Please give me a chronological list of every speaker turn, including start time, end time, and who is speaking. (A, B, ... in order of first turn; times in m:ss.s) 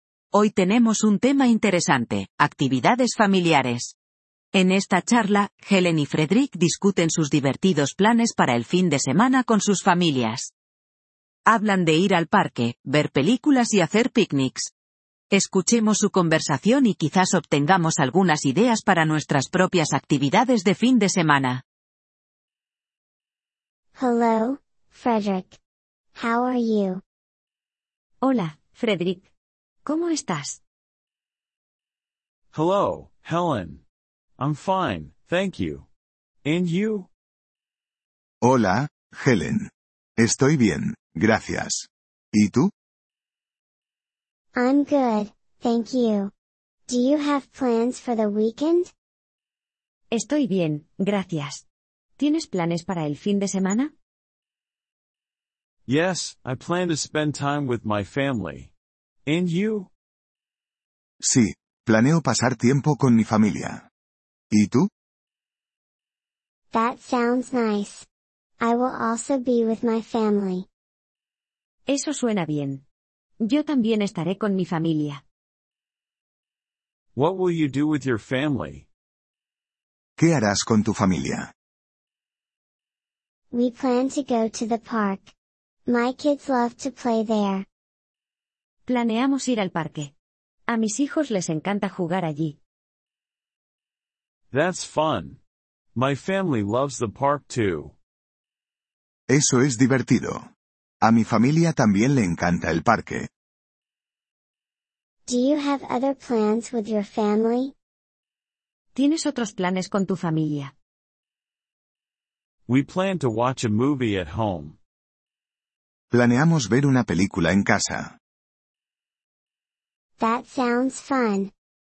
0:00.3-0:04.0 A
0:04.5-0:10.5 A
0:11.5-0:14.7 A
0:15.3-0:21.6 A
0:24.0-0:25.6 B
0:26.2-0:27.0 B
0:28.2-0:29.3 C
0:29.8-0:30.6 C
0:32.5-0:33.8 D
0:34.4-0:35.9 D
0:36.4-0:37.1 D
0:38.4-0:42.7 E
0:44.6-0:46.3 B
0:46.9-0:48.9 B
0:50.1-0:51.6 C
0:52.2-0:53.9 C
0:55.9-0:58.7 D
0:59.3-0:59.9 D
1:01.2-1:03.9 E
1:04.5-1:04.9 E
1:06.7-1:08.1 B
1:08.6-1:10.7 B
1:11.9-1:12.8 C
1:13.4-1:15.2 C
1:17.2-1:18.9 D
1:20.2-1:21.5 E
1:23.5-1:25.3 B
1:25.9-1:27.6 B
1:28.9-1:30.1 C
1:30.7-1:32.6 C
1:34.5-1:35.4 D
1:36.0-1:37.9 D
1:39.3-1:40.5 E
1:41.0-1:43.3 E
1:45.3-1:47.7 B
1:49.0-1:50.7 C
1:52.7-1:54.8 D
1:56.1-1:58.2 E
2:00.2-2:01.5 B